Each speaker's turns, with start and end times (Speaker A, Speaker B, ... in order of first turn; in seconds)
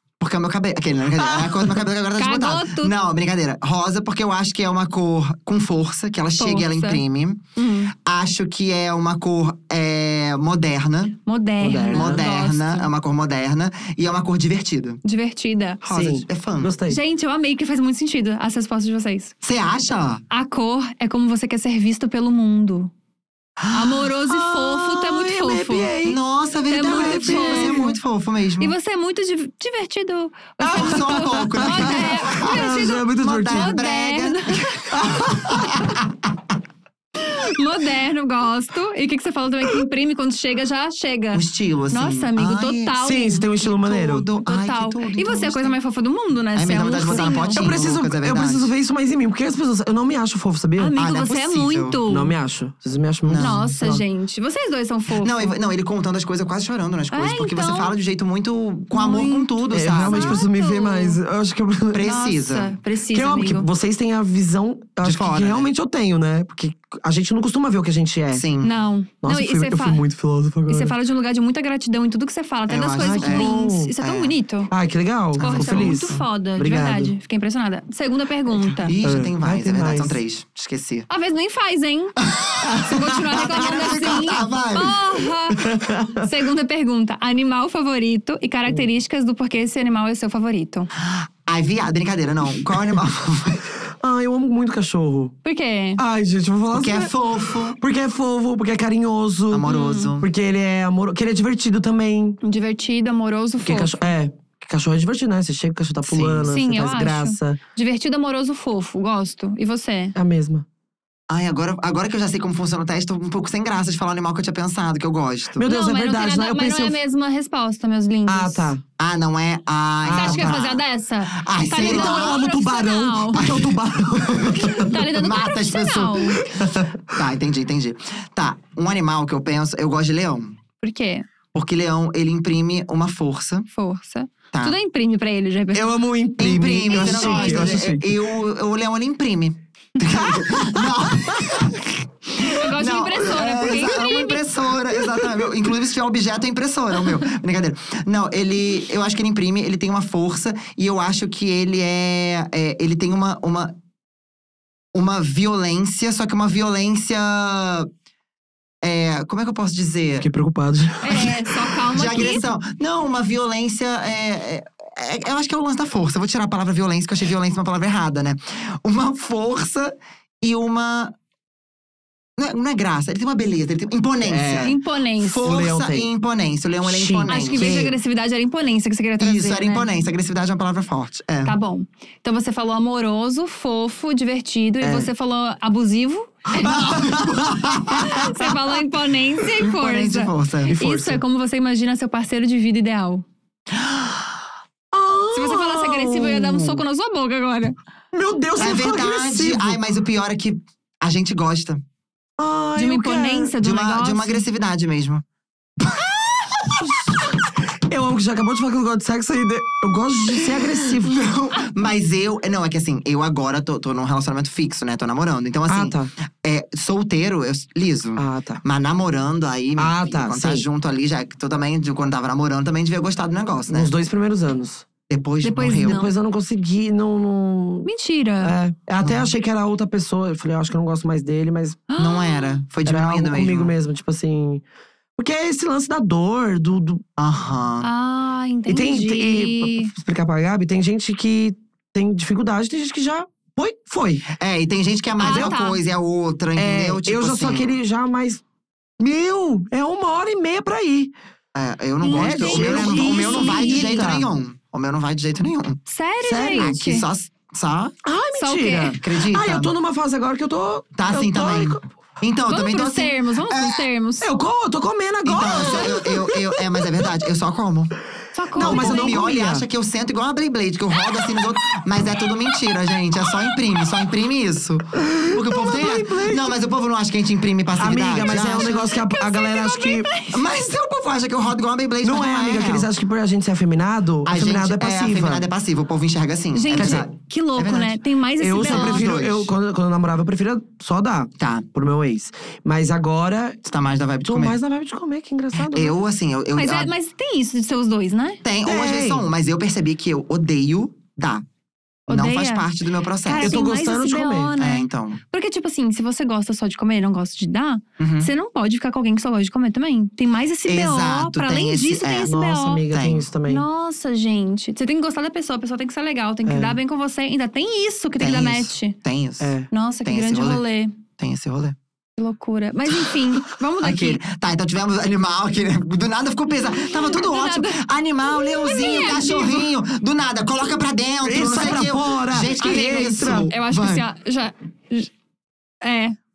Speaker A: 0.2-7.4, 7.9-11.2, 11.9-15.0, 15.8-16.7, 19.4-20.2, 23.6-24.0, 26.0-28.7, 30.7-34.6, 35.2-36.0, 41.3-43.0, 43.6-45.8, 46.5-48.7, 51.0-52.0, 53.3-53.6, 55.2-60.4, 61.9-62.8, 65.0-65.7, 68.3-68.7, 72.7-74.3, 75.4-76.2, 78.8-81.1, 82.2-85.2, 91.0-93.7, 96.7-97.8, 99.5-100.3, 106.0-106.5, 111.3-115.6, 119.0-122.4, 123.3-130.6, 131.5-133.7, 136.4-153.8, 154.9-157.9, 158.8-160.3, 161.9-171.1, 172.4-177.9, 179.2-181.6, 186.6-188.3, 189.6-190.7, 193.8-194.2, 198.6-201.8, 203.6-205.2, 205.9-206.7, 210.4-223.9, 225.1-226.1, 229.0-229.3, 232.0-233.7, 237.2-237.9, 244.3-247.7, 251.6-255.8, 256.6-257.9, 259.0-259.7, 260.9-263.8, 265.3-267.9, 268.6-278.9, 280.3-282.9, 284.2-288.0, 288.6-289.5, 291.4-291.6, 293.6-294.6, 295.6-296.9, 298.4-301.4, 302.1-303.6, 304.6-305.2, 308.0-308.3, 310.7-312.3, 312.9-313.3, 318.2-319.5, 320.1-320.6, 321.2-321.8, 323.8-334.1
Speaker B: 1.2-1.8, 11.6-12.2, 15.8-17.0, 24.3-26.2, 26.8-28.0, 30.6-33.8, 34.9-35.7, 43.0-44.3, 47.0-50.9, 52.1-54.0, 59.7-62.1, 63.1-68.5, 69.2-71.0, 73.0-73.9, 74.7-77.1, 78.7-80.2, 83.3-83.7, 85.6-86.3, 94.0-95.3, 96.0-97.1, 97.8-102.4, 103.6-107.6, 110.1-110.7, 115.6-117.0, 118.3-118.8, 120.0-120.6, 121.7-125.0, 126.6-126.9, 135.7-138.2, 140.2-141.5, 160.2-161.3, 174.2-174.8, 175.4-176.1, 176.8-177.9, 184.8-185.1, 186.7-188.3, 190.7-191.2, 194.9-196.8, 198.1-199.8, 202.4-203.6, 206.7-211.2, 215.7-216.1, 218.2-218.6, 219.8-220.7, 223.7-224.8, 225.8-227.9, 228.4-231.8, 232.8-234.6, 235.2-237.0, 238.7-244.3, 245.2-245.6, 246.6-248.4, 249.0-251.1, 252.1-254.3, 256.2-256.8, 258.0-261.8, 264.2-267.1, 268.6-269.6, 274.9-276.6, 277.8-280.1, 282.0-285.4, 286.7-287.1, 288.4-293.6, 294.2-296.0, 298.6-299.3, 303.4-304.5, 312.2-313.6, 316.4-316.8, 319.4-319.7, 331.2-333.5
Speaker C: 2.2-2.9, 6.4-7.0, 7.6-7.9, 11.3-12.9, 15.0-15.8, 16.9-19.3, 20.3-22.9, 23.7-25.9, 26.7-27.9, 28.6-34.8, 37.2-43.5, 44.5-47.7, 50.8-52.4, 53.4-55.6, 57.1-57.9, 58.9-61.2, 62.0-63.7, 68.6-70.0, 70.7-74.7, 75.4-78.9, 81.1-82.2, 82.7-90.9, 95.4-96.0, 99.7-100.1, 102.4-103.9, 106.4-110.1, 115.6-118.7, 120.1-123.4, 124.5-126.5, 130.8-131.3, 133.7-136.0, 136.9-137.8, 142.4-144.4, 161.0-162.4, 174.6-175.5, 177.3-179.9, 181.4-187.1, 187.9-193.3, 195.3-197.8, 202.8-204.4, 225.4-226.1, 227.8-228.6, 231.9-232.6, 237.8-239.9, 245.2-245.8, 252.0-254.1, 255.9-257.1, 258.4-259.0, 262.5-264.3, 265.6-265.9, 268.3-269.2, 271.1-271.4, 278.9-280.4, 286.5-289.1, 296.6-298.4, 302.1-302.6, 303.2-312.8, 313.4-318.9, 319.7-320.9, 322.2-324.2, 326.8-329.7, 332.6-335.1, 335.8-336.1